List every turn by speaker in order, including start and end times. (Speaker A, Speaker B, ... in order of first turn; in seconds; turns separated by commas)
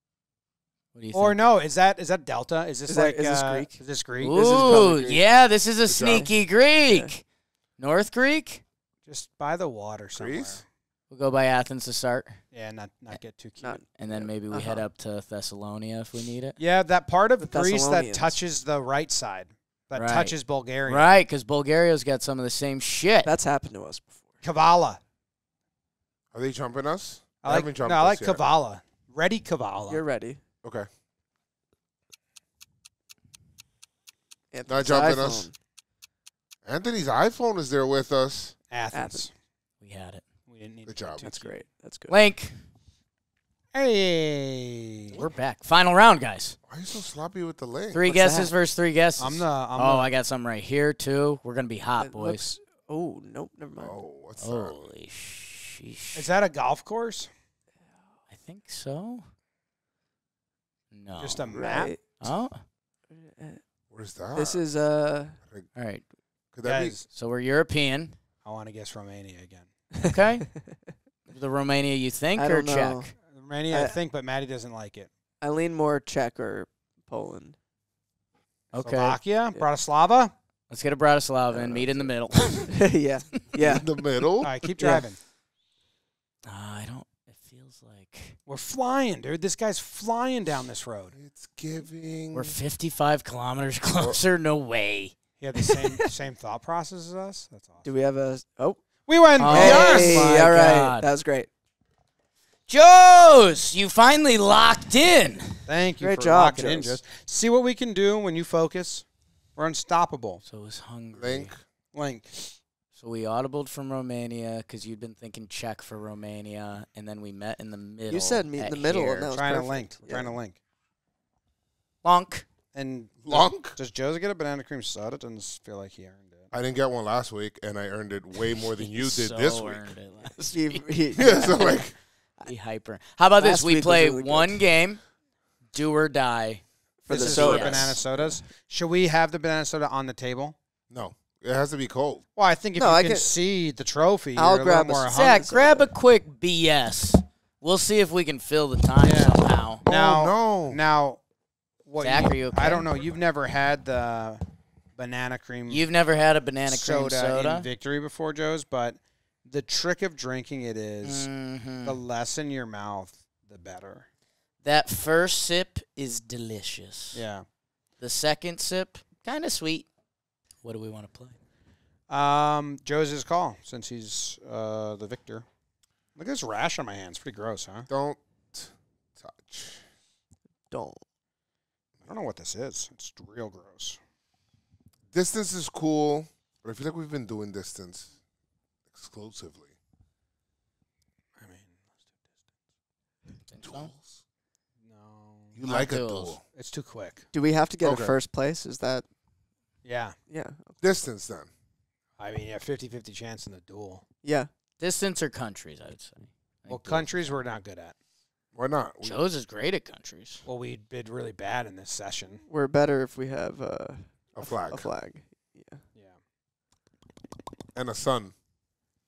Speaker A: 0.9-1.4, Speaker B: 1.1-4.5, Speaker C: 2.9-3.8, Speaker A: 4.2-7.2, Speaker C: 4.3-5.2, Speaker D: 4.3-5.2, Speaker D: 5.9-6.3, Speaker A: 7.8-8.6, Speaker B: 9.1-10.6, Speaker D: 10.1-10.6, Speaker A: 11.1-12.4, Speaker B: 12.5-13.8, Speaker C: 13.6-14.8, Speaker A: 14.0-16.6, Speaker B: 16.6-21.2, Speaker C: 17.4-18.4, Speaker A: 19.9-23.3, Speaker C: 23.2-24.3, Speaker B: 24.4-25.0, Speaker D: 26.3-28.4, Speaker B: 27.4-30.0, Speaker C: 29.9-30.4, Speaker C: 34.5-35.5, Speaker D: 34.7-35.5, Speaker D: 36.6-38.5, Speaker B: 38.7-39.3, Speaker C: 38.9-39.2, Speaker A: 39.8-40.2, Speaker B: 40.5-41.5, Speaker D: 40.9-41.3, Speaker C: 41.2-42.1, Speaker A: 42.1-42.6, Speaker B: 43.7-45.2, Speaker A: 45.1-46.6, Speaker D: 46.7-48.0, Speaker A: 47.9-52.5, Speaker C: 48.0-48.5, Speaker B: 49.2-50.1, Speaker C: 52.0-54.0, Speaker D: 53.8-54.8, Speaker A: 54.4-56.2, Speaker B: 56.1-57.3, Speaker A: 58.3-59.3, Speaker A: 60.9-61.5, Speaker B: 61.2-62.0, Speaker C: 61.5-62.1, Speaker A: 62.2-62.6, Speaker C: 63.1-63.6, Speaker D: 63.9-64.6, Speaker C: 64.3-65.4, Speaker A: 65.7-66.0, Speaker D: 66.5-67.0, Speaker B: 66.6-67.0, Speaker A: 67.1-68.2, Speaker B: 68.4-69.7, Speaker A: 70.0-70.6, Speaker A: 71.3-73.1, Speaker C: 72.4-73.1, Speaker B: 73.3-75.1, Speaker C: 75.4-77.6, Speaker B: 78.7-80.3, Speaker A: 78.7-79.2, Speaker A: 80.7-82.8, Speaker C: 81.5-82.1, Speaker C: 82.7-83.9, Speaker D: 83.5-84.5, Speaker B: 84.4-85.2, Speaker C: 84.8-85.0, Speaker A: 86.4-88.4, Speaker B: 88.5-91.1, Speaker D: 91.1-92.5, Speaker A: 92.3-95.2, Speaker B: 95.4-97.8, Speaker C: 97.8-98.8, Speaker B: 99.1-100.3, Speaker A: 99.4-101.1, Speaker C: 99.4-101.5, Speaker A: 102.7-105.6, Speaker B: 105.7-110.4, Speaker C: 106.0-107.0, Speaker A: 110.4-111.5, Speaker D: 111.1-111.5, Speaker B: 111.9-112.5, Speaker A: 112.9-119.3, Speaker C: 118.1-120.3, Speaker B: 119.3-120.6, Speaker A: 122.0-122.5, Speaker B: 122.7-126.5, Speaker D: 123.2-123.8, Speaker D: 126.5-129.9, Speaker A: 128.5-131.8, Speaker C: 130.5-131.8, Speaker D: 131.2-131.9, Speaker A: 132.4-135.0, Speaker C: 133.4-134.6, Speaker A: 135.7-138.0, Speaker C: 137.0-138.3, Speaker B: 137.1-140.6, Speaker D: 140.9-142.2, Speaker B: 142.3-145.4, Speaker C: 142.8-143.3, Speaker C: 144.3-145.9, Speaker A: 145.1-149.8, Speaker B: 149.0-151.2, Speaker D: 149.8-150.8, Speaker B: 151.8-154.4, Speaker A: 152.0-153.1, Speaker B: 154.9-155.8, Speaker A: 155.7-157.7, Speaker B: 156.7-161.3, Speaker A: 161.0-162.0, Speaker B: 161.8-164.1, Speaker A: 164.6-167.2, Speaker B: 167.1-167.4, Speaker A: 168.0-169.9, Speaker A: 170.6-171.4, Speaker B: 172.1-175.4, Speaker B: 176.2-177.9, Speaker D: 177.9-179.8, Speaker C: 180.7-181.0, Speaker B: 182.0-184.0, Speaker D: 185.1-188.1, Speaker D: 188.9-189.7, Speaker B: 191.4-191.8, Speaker A: 193.5-193.9, Speaker D: 193.6-194.0, Speaker B: 194.8-195.6, Speaker D: 195.5-196.4, Speaker A: 195.6-196.3, Speaker B: 196.5-197.2, Speaker C: 197.3-199.1, Speaker D: 197.8-198.2, Speaker B: 199.8-200.2, Speaker C: 200.3-200.8, Speaker D: 200.8-201.5, Speaker B: 202.2-204.0, Speaker C: 204.2-204.5, Speaker A: 204.8-207.3, Speaker B: 206.7-207.9, Speaker D: 208.5-209.2, Speaker A: 209.0-210.4, Speaker B: 210.4-212.4, Speaker C: 212.5-215.8, Speaker D: 214.3-214.9, Speaker D: 217.7-218.3